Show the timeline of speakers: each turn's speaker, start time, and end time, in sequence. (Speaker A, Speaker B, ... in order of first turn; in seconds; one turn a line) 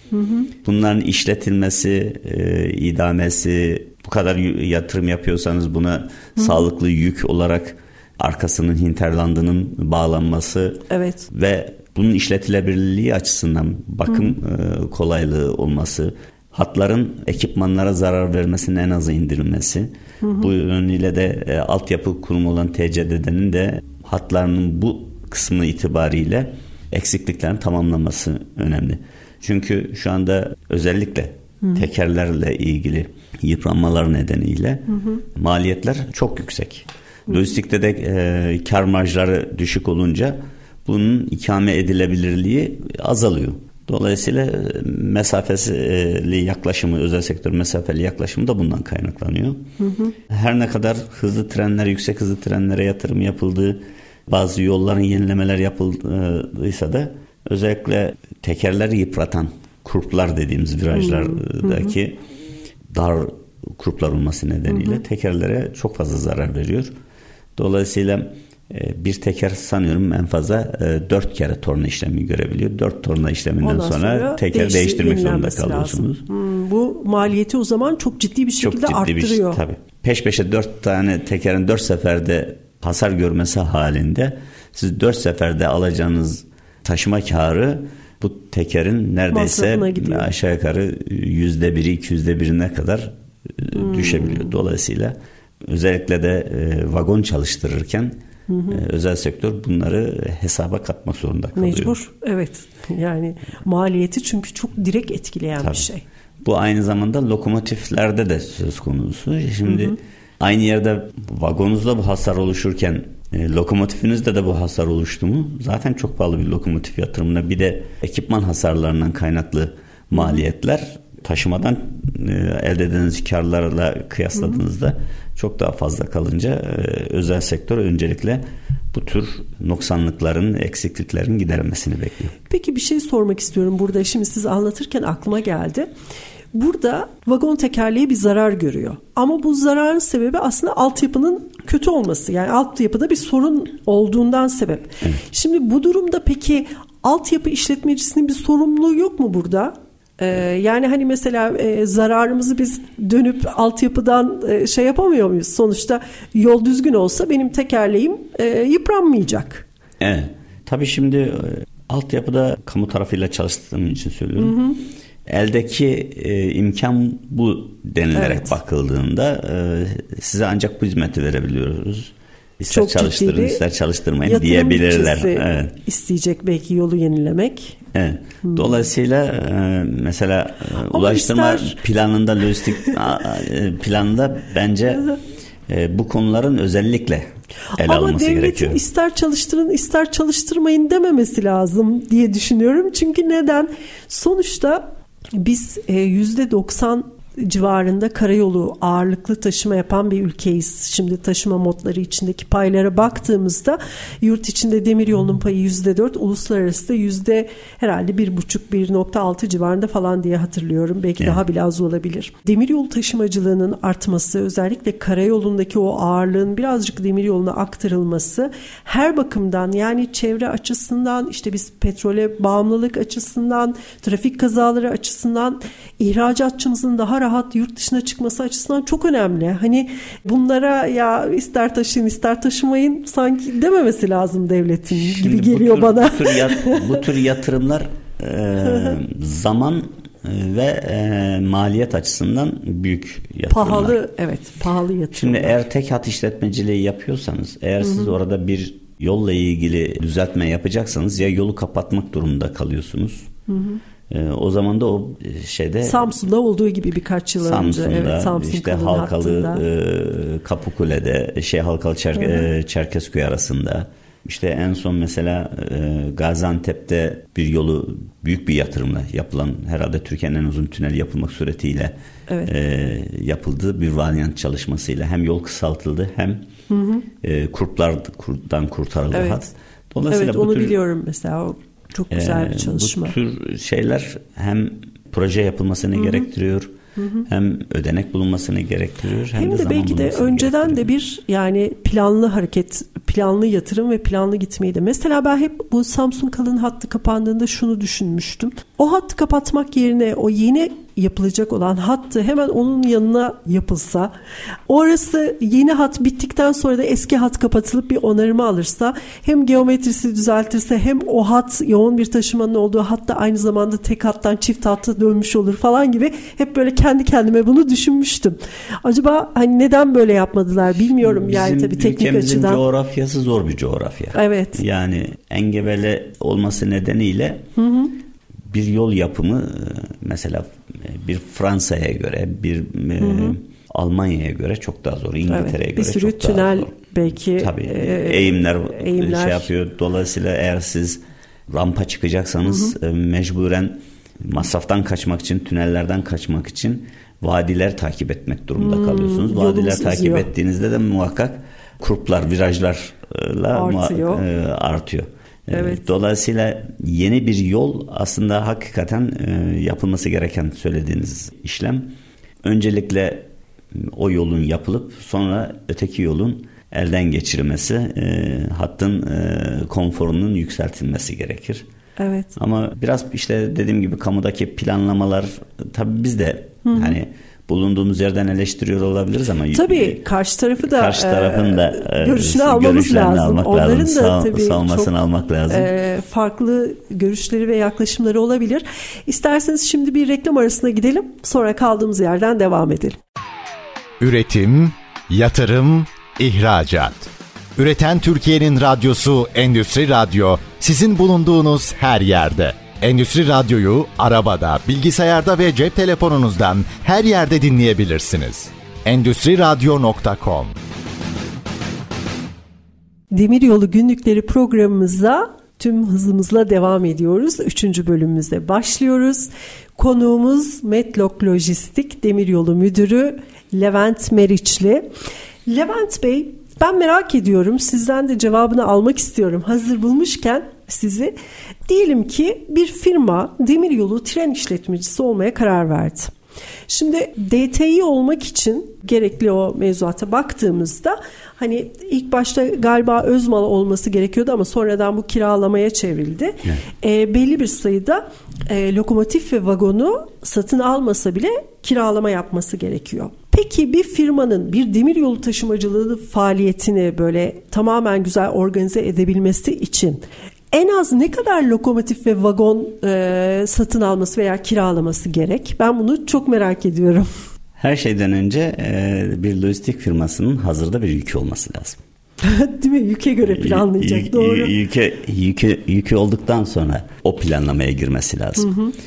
Speaker A: 0.1-0.5
Speaker B: 0.6-49.7
Speaker A: 10.9-11.3
Speaker A: 20.2-20.5
Speaker A: 49.8-50.1
Speaker B: 50.3-62.2
Speaker A: 60.9-61.9
Speaker B: 62.9-67.0
Speaker A: 64.7-65.0
Speaker B: 67.6-76.2
Speaker A: 73.6-79.6
Speaker B: 78.6-98.2
Speaker A: 89.3-90.3
Speaker A: 93.7-94.5
Speaker A: 98.5-98.8
Speaker B: 98.7-102.0
Speaker A: 101.6-106.0
Speaker B: 105.6-105.9
Speaker B: 106.4-132.3
Speaker A: 109.7-110.0
Speaker A: 120.1-120.4
Speaker A: 132.5-135.9
Speaker A: 136.5-159.7
Speaker B: 160.0-164.6
Speaker A: 164.4-164.8
Speaker B: 165.3-175.8
Speaker A: 168.1-168.5
Speaker A: 172.7-173.6
Speaker A: 174.2-177.8
Speaker B: 177.9-185.1
Speaker A: 178.4-178.7
Speaker A: 180.9-181.8
Speaker B: 185.7-188.8
Speaker A: 187.7-237.0
Speaker B: 234.9-244.0
Speaker A: 243.5-245.6
Speaker B: 245.1-253.3
Speaker A: 247.8-248.1
Speaker A: 253.5-253.8
Speaker B: 254.1-256.1
Speaker A: 255.8-259.6
Speaker B: 257.4-271.9
Speaker A: 262.2-262.5
Speaker B: 272.5-276.5
Speaker A: 276.7-277.1
Speaker B: 277.2-280.8
Speaker A: 279.1-279.5
Speaker A: 280.1-283.1
Speaker B: 282.1-286.8
Speaker A: 286.0-286.3
Speaker A: 287.0-287.2
Speaker B: 287.3-290.9
Speaker A: 289.4-304.1
Speaker A: 304.7-322.6
Speaker B: 321.0-327.5
Speaker A: 324.1-324.6
Speaker A: 327.6-327.9
Speaker B: 328.5-336.7
Speaker A: 333.0-333.4
Speaker A: 335.3-339.5
Speaker B: 337.3-371.7
Speaker A: 342.5-342.7
Speaker A: 348.6-350.3
Speaker A: 353.5-354.2
Speaker A: 355.5-355.9
Speaker A: 372.0-372.4
Speaker B: 372.4-380.0
Speaker A: 376.6-377.0
Speaker A: 379.5-384.9
Speaker B: 380.6-385.7
Speaker A: 385.5-393.0
Speaker C: 394.0-410.6
Speaker A: 413.1-424.9
Speaker A: 425.5-431.1
Speaker A: 431.7-436.1
Speaker A: 436.7-467.1
Speaker B: 467.6-471.8
Speaker A: 472.2-474.5
Speaker B: 473.3-478.5
Speaker A: 478.4-478.7